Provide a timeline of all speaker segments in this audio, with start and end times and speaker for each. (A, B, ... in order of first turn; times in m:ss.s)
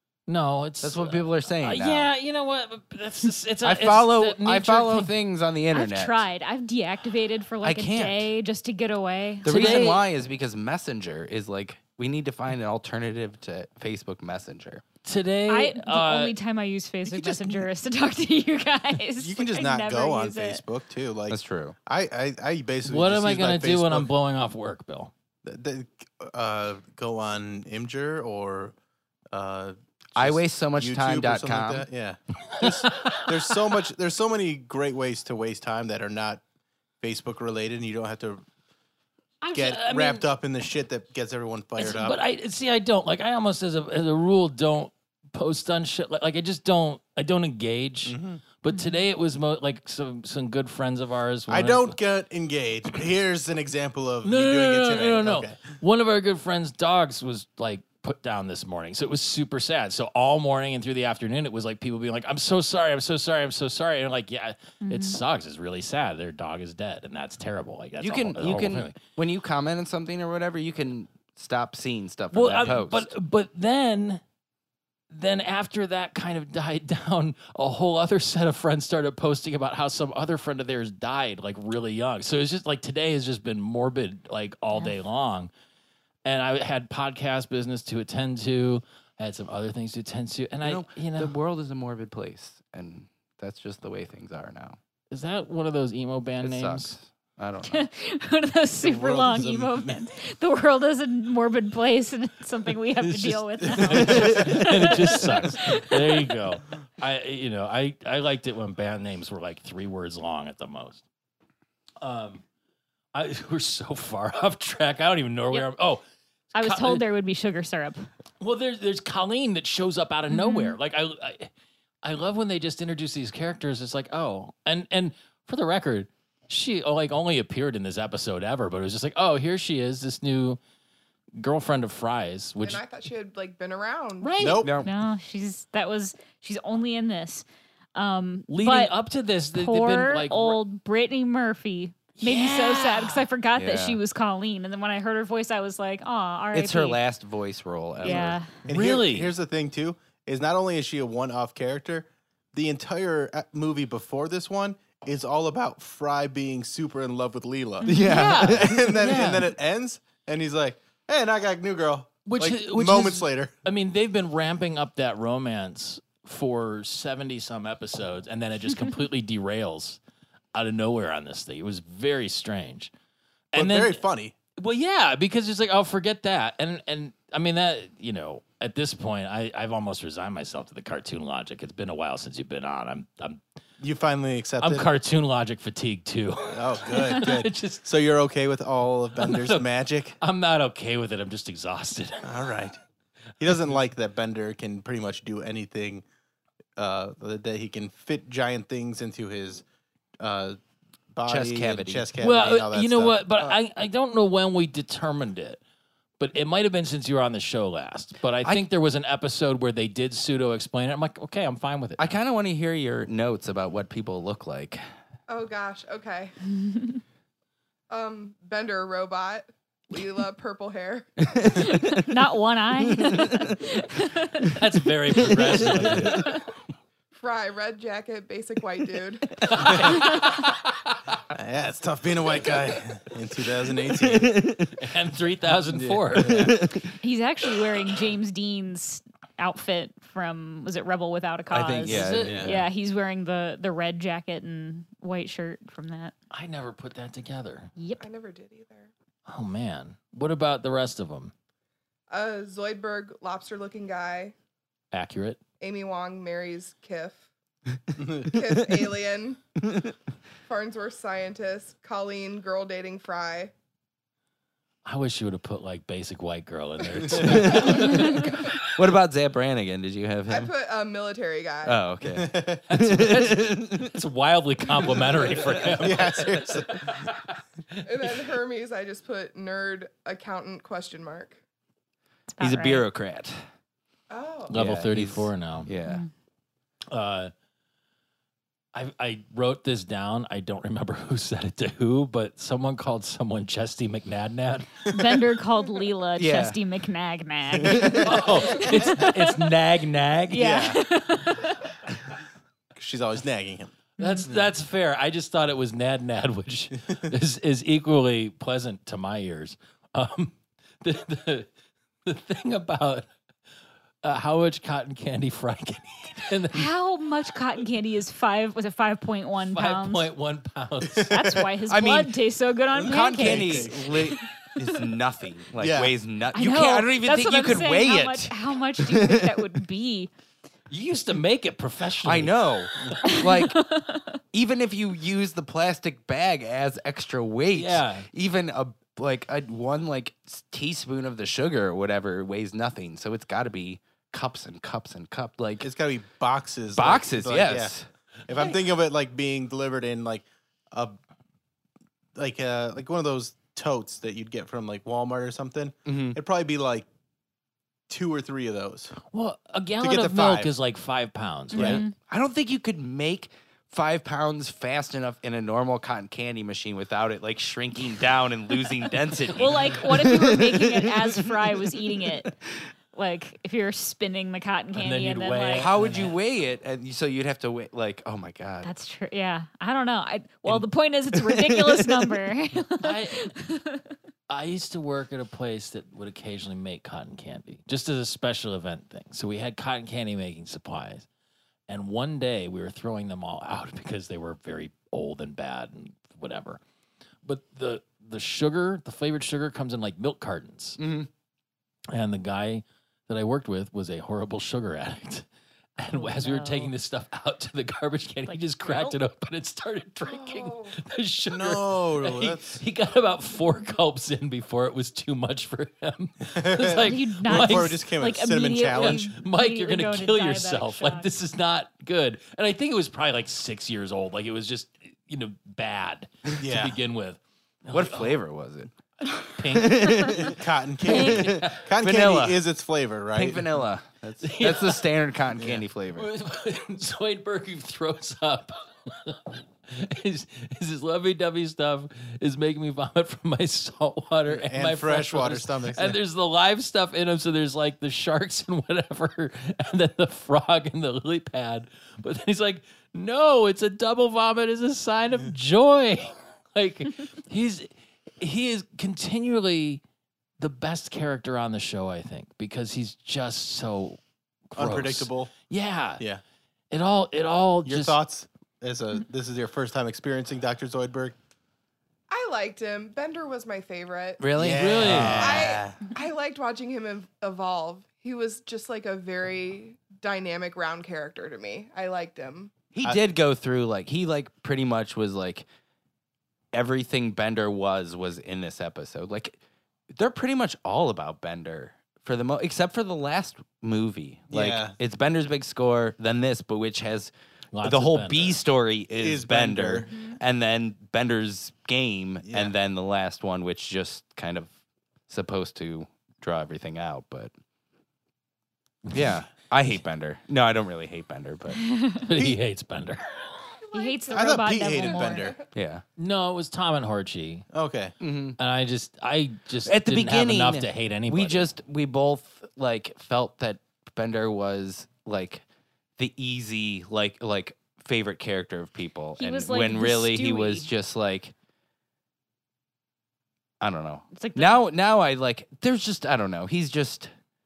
0:00.3-0:05.1 A
0:00.8-0:02.1 B
0:03.6-0:06.2 B
0:05.7-0:10.0 C
0:07.6-0:08.3 B
0:09.4-0:14.8 B
0:09.4-0:10.0 A
0:15.1-0:16.3 A
0:15.5-0:20.6 C
0:19.2-0:24.1 D
0:21.3-0:21.8 B
0:22.8-0:25.1 A
0:25.4-0:28.8 D
0:29.3-0:36.4 D
0:30.2-0:31.9 B
0:32.5-0:33.5 A
0:37.0-0:38.4 D
0:39.4-0:40.2 A
0:39.5-0:42.2 D
0:41.8-0:52.0 A
0:48.1-0:48.4 D
0:51.5-0:55.8 D
0:54.2-1:09.0 A
1:04.8-1:05.2 C
1:08.0-1:13.1 B
1:12.3-1:14.2 A
1:15.1-1:25.5 A
1:26.2-1:31.4 A
1:30.6-1:34.8 B
1:35.1-1:37.0 A
1:36.4-1:37.9 B
1:37.7-1:46.3 C
1:38.8-1:40.0 D
1:43.0-1:51.0 A
1:43.6-1:44.6 D
1:44.0-1:44.9 B
1:52.0-1:52.4 A
1:53.1-1:56.0 A
1:56.5-1:57.0 A
1:56.6-1:58.1 C
1:58.4-2:01.5 A
2:00.3-2:00.8 C
2:02.0-2:10.6 A
2:11.4-2:12.8 A
2:12.6-2:14.6 E
2:14.2-2:14.7 A
2:14.4-2:14.7 D
2:14.5-2:14.9 B
2:14.8-2:18.9 C
2:18.5-2:20.6 A
2:19.5-2:27.0 C
2:22.2-2:23.2 A
2:23.6-2:24.0 B
2:26.5-2:28.4 B
2:28.0-2:28.5 C
2:28.1-2:29.3 A
2:28.6-2:43.5 D
2:37.8-2:38.6 C
2:37.8-2:39.0 B
2:38.1-2:39.5 A
2:42.3-2:50.0 A
2:50.5-2:52.9 A
2:53.5-2:54.0 A
2:53.5-2:54.4 D
2:54.6-3:03.4 A
3:03.8-3:04.9 D
3:04.6-3:07.9 A
3:06.5-3:10.2 D
3:09.2-3:09.7 A
3:10.2-3:12.4 A
3:12.2-3:12.8 D
3:13.4-3:16.0 D
3:16.8-3:19.6 D
3:20.2-3:20.6 D
3:21.1-3:23.6 D
3:21.3-3:22.1 B
3:22.2-3:25.6 A
3:26.2-3:32.2 A
3:32.0-3:34.8 B
3:35.3-3:36.4 E
3:37.9-3:41.8 E
3:41.2-3:42.1 B
3:41.6-3:44.6 C
3:42.9-3:43.6 B
3:44.5-3:46.4 A
3:45.2-3:46.3 B
3:46.1-3:46.4 C
3:47.1-3:50.0 E
3:49.4-3:51.2 A
3:51.3-3:54.4 D
3:54.0-3:54.8 B
3:54.8-3:56.5 A
3:55.7-3:56.5 D
3:56.2-3:56.9 B
3:57.0-4:06.2 C
4:01.5-4:02.6 B
4:01.9-4:02.6 A
4:02.2-4:02.5 D
4:06.3-4:07.7 A
4:07.8-4:08.0 C
4:08.0-4:08.9 E
4:09.3-4:11.3 A
4:12.1-4:14.3 E
4:14.9-4:15.4 A
4:15.6-4:17.3 E
4:18.0-4:18.3 D
4:18.2-4:19.4 E
4:18.5-4:18.9 B
4:19.6-4:19.9 B
4:20.5-4:23.5 E
4:24.8-4:28.6 A
4:27.2-4:30.5 B
4:30.3-4:31.9 E
4:31.6-4:33.9 B
4:32.1-4:32.6 D
4:32.7-4:37.4 A
4:35.8-4:37.1 D
4:37.8-4:41.4 E
4:42.3-4:42.8 C
4:42.4-4:43.4 B
4:44.1-4:44.6 E
4:44.5-4:45.7 A
4:44.5-4:46.0 B
4:46.9-4:47.3 A
4:48.7-4:55.0 A
4:54.9-4:59.4 C
4:56.2-4:56.6 B
4:57.6-4:58.1 B
4:57.9-5:00.6 A
5:00.3-5:00.8 D
5:00.3-5:01.7 C
5:02.8-5:03.7 D
5:04.0-5:11.5 A
5:04.0-5:04.2 C
5:12.0-5:13.1 A
5:14.0-5:16.7 A
5:16.5-5:20.1 C
5:19.5-5:21.2 A
5:21.0-5:21.4 D
5:21.1-5:24.8 C
5:21.7-5:22.2 B
5:22.8-5:24.2 D
5:22.8-5:29.4 B
5:25.6-5:25.9 D
5:26.3-5:30.1 C
5:30.7-5:32.9 A
5:32.0-5:33.6 B
5:33.0-5:34.2 C
5:34.3-5:45.7 B
5:37.5-5:38.1 A
5:45.6-5:47.7 D
5:46.8-5:47.9 B
5:48.3-5:51.0 D
5:52.2-5:56.9 D
5:55.9-5:56.2 B
5:57.9-5:59.0 D
5:59.1-6:01.8 A
5:59.8-6:00.5 D
6:01.5-6:02.0 C
6:01.5-6:01.8 D
6:01.6-6:11.8 B
6:09.4-6:12.4 C
6:12.9-6:15.7 C
6:14.8-6:16.2 A
6:15.6-6:18.7 B
6:18.6-6:23.9 C
6:20.5-6:22.2 B
6:22.8-6:23.3 A
6:24.3-6:31.1 A
6:31.7-6:36.6 A
6:37.2-6:40.8 A
6:40.8-6:41.1 B
6:41.9-6:45.3 A
6:45.8-6:57.8 A
6:45.9-6:46.7 C
6:48.3-6:49.0 C
6:50.1-6:50.8 E
6:51.3-6:52.6 D
6:56.3-6:59.1 D
6:56.8-7:01.1 C
6:58.8-7:08.2 A
7:06.4-7:06.8 D
7:07.7-7:08.7 B
7:09.3-7:10.3 A
7:09.5-7:10.3 B
7:10.2-7:13.5 D
7:10.9-7:12.4 B
7:11.0-7:11.6 A
7:13.2-7:16.1 B
7:14.2-7:14.9 A
7:15.4-7:15.6 D
7:15.9-7:39.8 A
7:24.3-7:26.0 D
7:40.4-7:46.0 A
7:44.6-7:45.3 D
7:46.7-7:48.0 A
7:47.6-7:51.2 D
7:52.1-7:54.3 E
7:54.2-7:55.6 B
7:54.4-7:55.8 D
7:54.5-7:55.4 A
7:55.2-8:02.5 E
8:02.7-8:05.4 B
8:06.5-8:09.4 B
8:09.9-8:24.5 B
8:14.3-8:14.8 D
8:17.5-8:18.4 A
8:19.0-8:19.9 D
8:22.2-8:22.5 D
8:25.1-8:27.3 B
8:28.9-8:31.6 B
8:31.7-8:32.0 C
8:32.0-8:33.0 A
8:33.6-8:35.5 E
8:33.7-8:35.4 C
8:34.1-8:35.4 D
8:35.6-8:35.8 B
8:36.0-8:37.5 A
8:37.5-8:38.0 D
8:38.0-8:38.4 B
8:38.4-8:41.5 A
8:39.6-8:45.4 B
8:46.0-8:51.3 B
8:49.2-8:50.7 C
8:53.6-8:57.1 B
8:54.2-8:54.6 C